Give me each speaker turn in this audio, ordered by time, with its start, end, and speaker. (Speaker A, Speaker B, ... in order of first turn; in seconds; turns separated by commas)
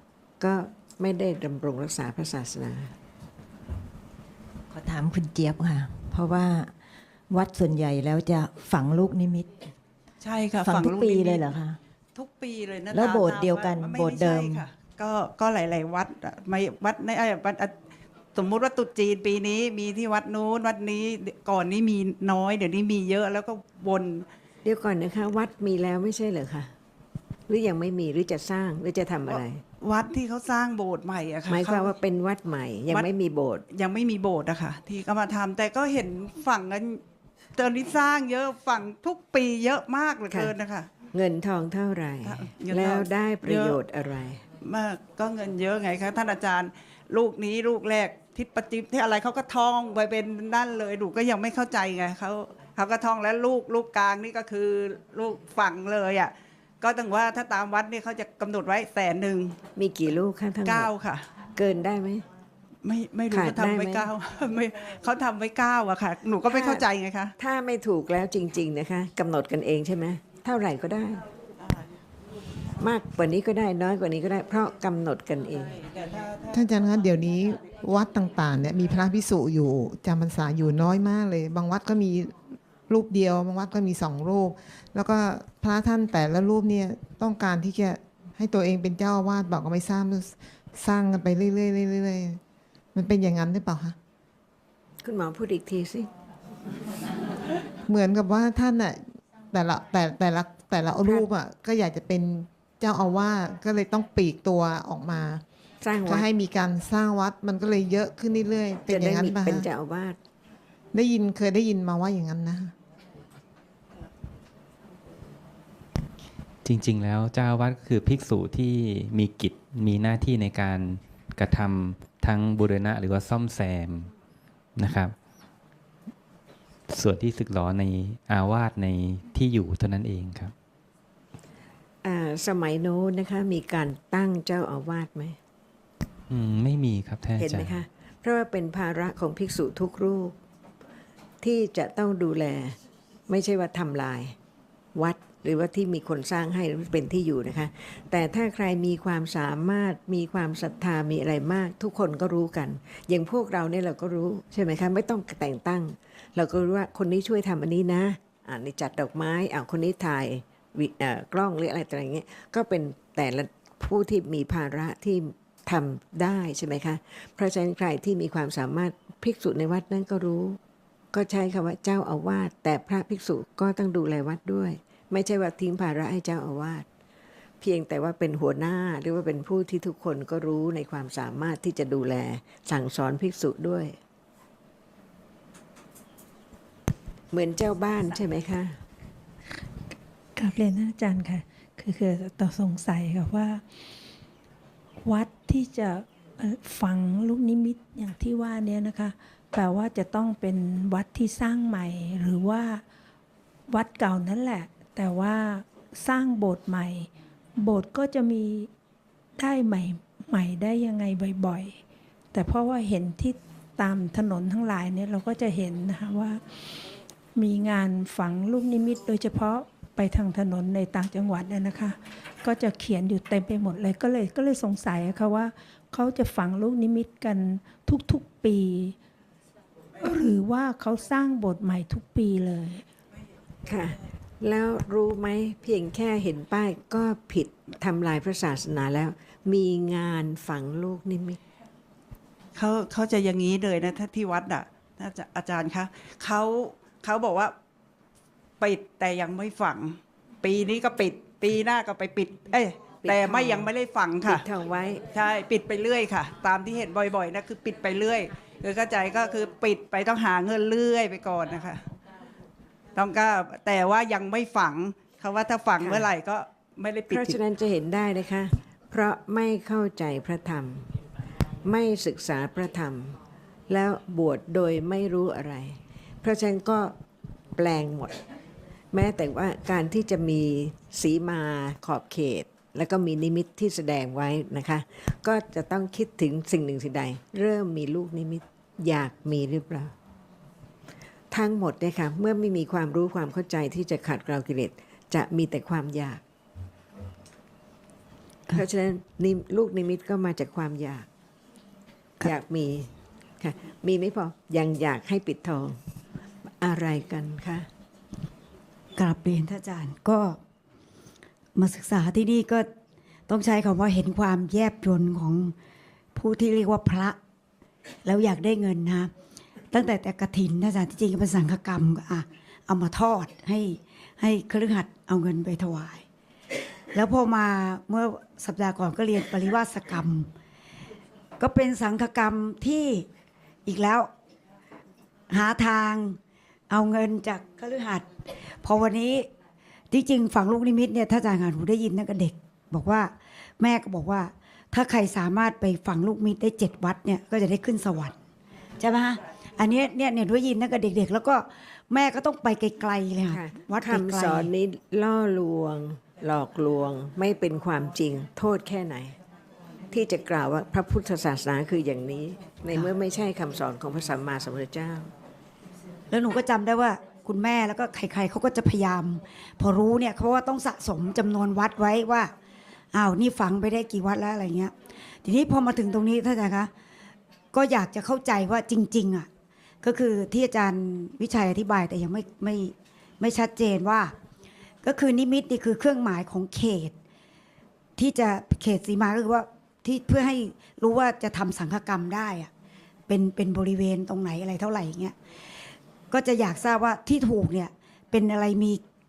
Speaker A: 0.4-2.9, Speaker B: 4.7-6.7, Speaker B: 7.3-9.5, Speaker C: 10.2-11.5, Speaker B: 10.6-11.8, Speaker C: 12.2-17.7, Speaker B: 12.9-14.7, Speaker C: 18.3-24.2, Speaker A: 24.6-26.7, Speaker A: 27.5-29.6, Speaker C: 29.3-31.9, Speaker A: 31.5-33.6, Speaker C: 33.7-37.0, Speaker C: 37.5-40.9, Speaker A: 41.1-44.4, Speaker C: 42.2-43.8, Speaker C: 44.6-59.6, Speaker A: 59.8-60.9, Speaker C: 60.6-61.3, Speaker A: 61.5-62.2, Speaker C: 62.8-67.3, Speaker A: 63.3-64.1, Speaker A: 66.5-66.8, Speaker A: 67.4-71.2, Speaker A: 72.8-75.8, Speaker C: 76.1-76.5, Speaker D: 76.5-82.3, Speaker D: 82.9-92.4, Speaker D: 92.9-94.0, Speaker A: 95.0-96.1, Speaker D: 97.9-105.4, Speaker A: 105.8-106.2, Speaker D: 106.0-109.7, Speaker A: 108.9-110.2, Speaker D: 110.9-112.7, Speaker E: 116.6-124.1, Speaker E: 124.8-125.1, Speaker E: 126.9-130.5, Speaker A: 132.0-135.4, Speaker E: 136.3-137.8, Speaker A: 137.4-140.3, Speaker A: 141.4-142.8, Speaker A: 143.3-144.3, Speaker A: 144.9-170.6, Speaker A: 171.1-176.8, Speaker A: 177.6-184.0, Speaker A: 187.3-188.8, Speaker F: 190.3-193.6, Speaker F: 195.0-202.8, Speaker F: 203.7-208.7, Speaker F: 209.4-211.8, Speaker F: 212.3-216.7, Speaker F: 217.3-228.9, Speaker F: 230.0-232.8, Speaker A: 233.7-241.4, Speaker C: 242.5-247.5, Speaker C: 248.6-254.4, Speaker A: 253.0-253.7, Speaker A: 254.2-255.0, Speaker C: 255.1-261.9, Speaker C: 262.9-267.4, Speaker A: 265.8-266.1, Speaker A: 267.1-270.9, Speaker A: 271.6-273.2, Speaker A: 273.7-276.9, Speaker A: 277.6-278.2, Speaker A: 278.9-289.9, Speaker A: 291.3-296.2, Speaker A: 298.5-301.1, Speaker A: 302.2-305.8, Speaker A: 306.5-307.7, Speaker G: 308.9-310.4, Speaker G: 311.6-312.7, Speaker G: 313.3-315.5, Speaker G: 316.1-317.2, Speaker G: 318.0-319.1, Speaker G: 319.7-326.0, Speaker G: 326.9-330.3, Speaker G: 331.4-333.1, Speaker G: 333.6-334.1, Speaker G: 335.3-336.2, Speaker G: 336.7-339.3, Speaker G: 339.9-348.1, Speaker G: 348.8-354.5, Speaker A: 353.3-359.1, Speaker A: 359.9-365.1, Speaker G: 366.1-372.3, Speaker G: 372.9-374.7, Speaker G: 375.2-376.7, Speaker G: 377.5-379.3, Speaker G: 379.8-384.1, Speaker G: 384.8-386.9, Speaker G: 388.0-392.5, Speaker G: 393.1-395.1, Speaker G: 396.1-398.8